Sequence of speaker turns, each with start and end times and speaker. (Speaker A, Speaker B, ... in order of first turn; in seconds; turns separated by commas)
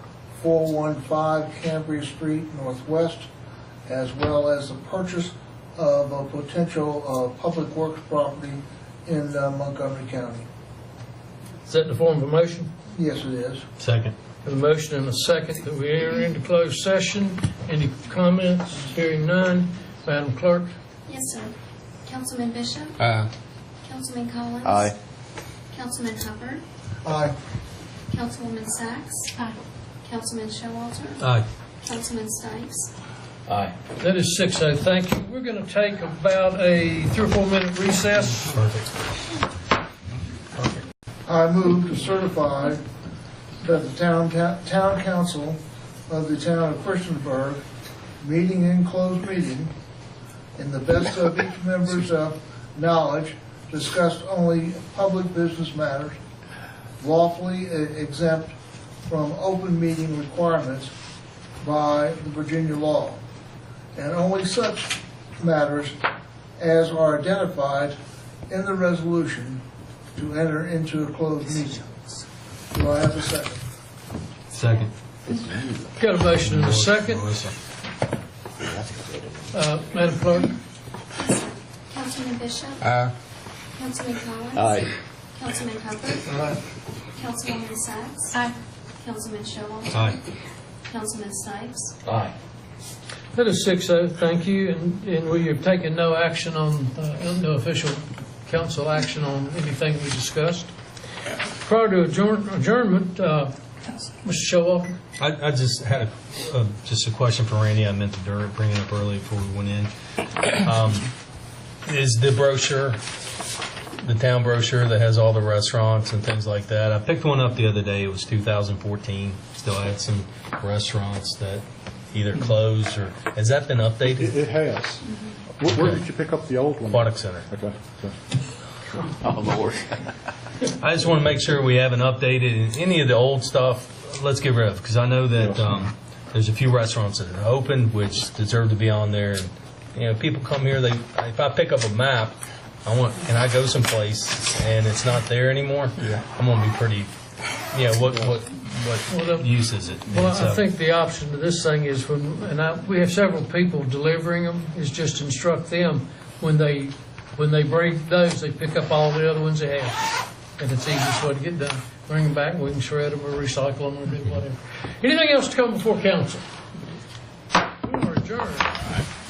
Speaker A: 0.3-3.3, Speaker A: 3.9-10.5, Speaker B: 11.7-12.7, Speaker A: 12.9-13.7, Speaker C: 13.8-14.2, Speaker B: 14.4-20.7, Speaker D: 21.1-21.5, Speaker D: 22.1-23.0, Speaker C: 23.0-23.3, Speaker D: 23.8-24.9, Speaker E: 24.6-24.9, Speaker D: 25.7-26.6, Speaker A: 27.0-27.3, Speaker D: 28.1-29.4, Speaker D: 30.1-31.2, Speaker C: 31.2-31.5, Speaker D: 31.8-32.9, Speaker B: 33.5-38.5, Speaker C: 38.5-38.9, Speaker A: 41.3-42.9, Speaker A: 43.6-47.6, Speaker A: 48.2-49.7, Speaker A: 50.6-56.2, Speaker A: 57.0-58.6, Speaker A: 59.1-60.9, Speaker A: 61.6-63.2, Speaker A: 64.0-66.0, Speaker A: 66.6-68.0, Speaker A: 68.5-69.6, Speaker A: 70.2-71.9, Speaker A: 72.7-73.6, Speaker C: 74.5-74.9, Speaker E: 75.3-76.0, Speaker B: 76.0-77.3, Speaker C: 76.4-77.5, Speaker E: 78.6-79.5, Speaker B: 79.5-80.6, Speaker D: 81.2-82.8, Speaker C: 82.8-83.1, Speaker D: 83.8-84.8, Speaker E: 84.5-84.9, Speaker D: 85.3-86.4, Speaker D: 87.2-88.5, Speaker D: 89.0-90.2, Speaker C: 89.9-90.2, Speaker D: 90.9-92.0, Speaker B: 93.3-100.7, Speaker B: 101.6-103.5, Speaker B: 104.2-105.0, Speaker C: 105.2-109.9, Speaker C: 110.6-111.1, Speaker C: 111.9-113.0, Speaker C: 114.0-124.4, Speaker F: 124.1-128.2, Speaker C: 125.7-126.0, Speaker C: 126.9-127.5, Speaker E: 129.2-130.1, Speaker C: 130.8-147.1, Speaker F: 135.4-135.7, Speaker C: 147.7-150.6, Speaker B: 149.1-149.5, Speaker B: 150.1-160.0, Speaker B: 160.6-166.4, Speaker B: 167.8-168.8